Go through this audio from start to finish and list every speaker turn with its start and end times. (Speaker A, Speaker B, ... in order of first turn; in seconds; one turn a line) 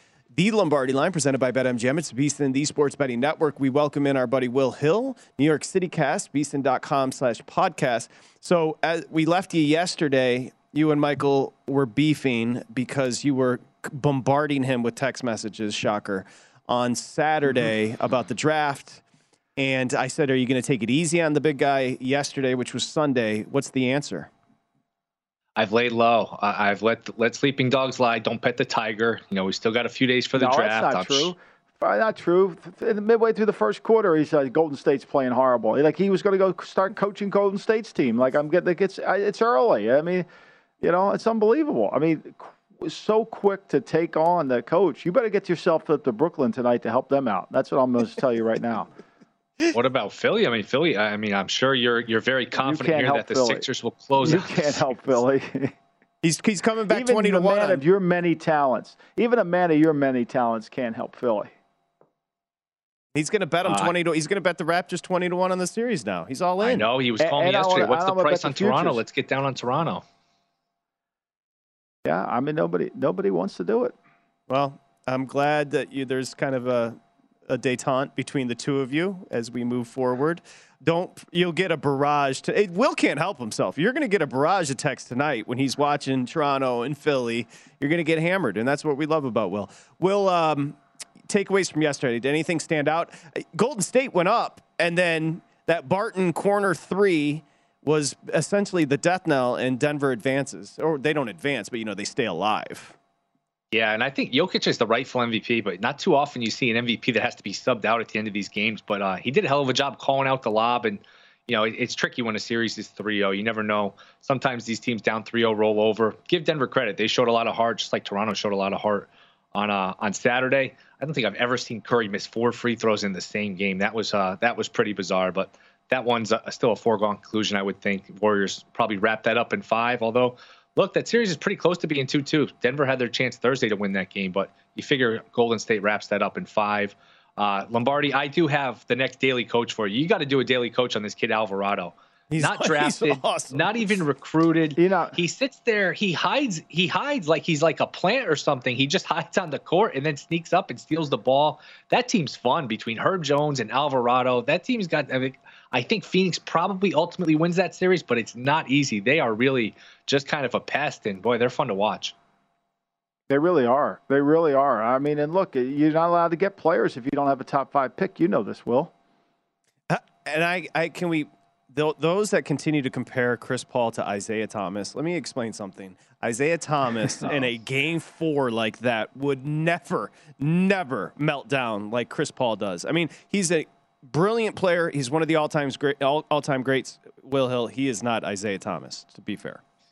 Speaker A: 0.3-19.0
Speaker A: 19.6-24.3
Speaker B: 25.6-31.3
Speaker C: 30.3-40.3
Speaker C: 40.8-48.9
Speaker B: 49.7-55.1
Speaker C: 52.5-53.7
Speaker C: 54.2-55.7
Speaker A: 56.2-57.8
Speaker C: 56.9-61.5
Speaker A: 63.1-66.9
Speaker B: 63.6-63.9
Speaker B: 66.6-70.0
Speaker C: 67.2-69.0
Speaker C: 72.0-74.0
Speaker A: 74.5-103.0
Speaker B: 103.7-162.1
Speaker A: 142.3-144.0
Speaker C: 144.8-145.2
Speaker C: 163.3-168.9
Speaker A: 169.9-189.6